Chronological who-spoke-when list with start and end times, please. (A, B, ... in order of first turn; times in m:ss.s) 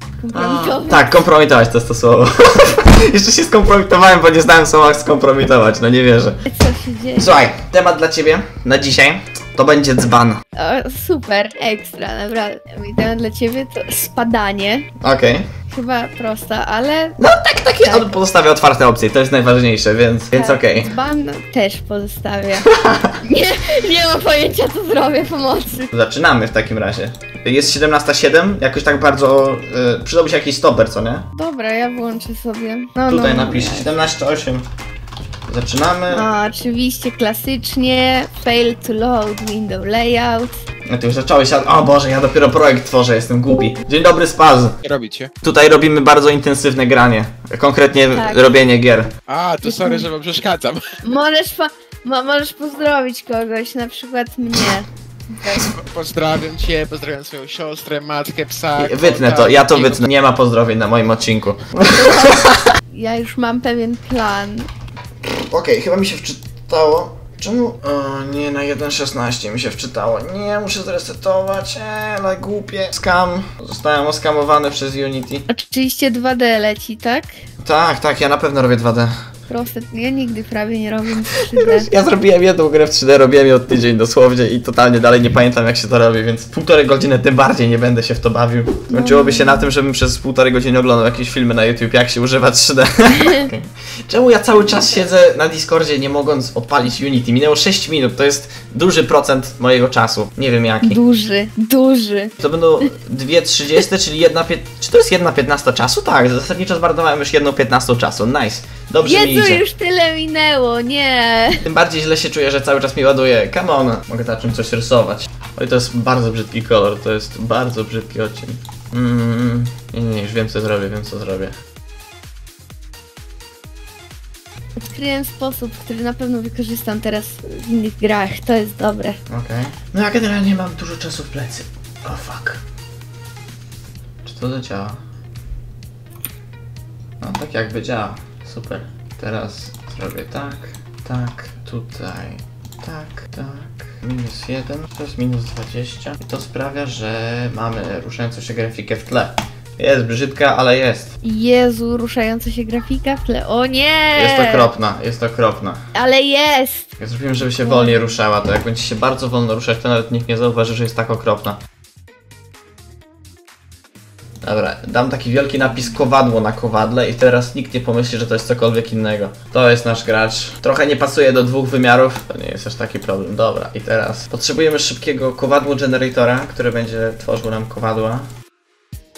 0:00.2-0:01.1 A
0:00.3-0:06.4 B
0:06.4-0:07.4 A
0:07.2-0:10.4 B
0:10.6-0:14.9 A
0:15.0-0:15.4 B
0:15.7-0:17.2 A
0:17.2-0:20.9 B
0:17.8-0:18.2 A
0:20.3-0:22.7 A
0:22.6-0:23.1 B
0:23.2-0:25.9 A
0:25.9-0:31.3 B
0:31.3-0:33.9 A
0:33.1-0:34.6 B
0:35.5-0:36.3 B
0:36.1-0:40.6 A
0:40.8-0:44.8 B
0:44.8-0:45.3 C
0:45.4-0:49.1 B
0:48.1-0:48.6 A
0:49.3-0:50.8 C
0:49.6-0:50.1 A
0:51.0-0:55.7 A
0:55.6-1:00.0 C
0:58.8-1:02.6 B
1:01.9-1:04.7 A
1:05.2-1:15.5 B
1:15.5-1:17.3 A
1:17.6-1:19.1 B
1:19.5-1:21.9 A
1:21.4-1:41.0 B
1:28.9-1:29.7 A
1:33.2-1:33.5 A
1:40.8-1:42.3 A
1:42.4-1:49.6 B
1:49.0-1:51.6 A
1:51.6-2:01.5 B
2:04.9-2:09.2 A
2:09.3-2:12.6 B
2:14.2-2:15.0 B
2:17.2-2:31.2 B
2:31.2-2:34.7 A
2:34.1-2:35.8 B
2:35.9-2:36.9 A
2:37.0-2:41.6 B
2:37.6-2:38.0 A
2:44.4-2:58.3 B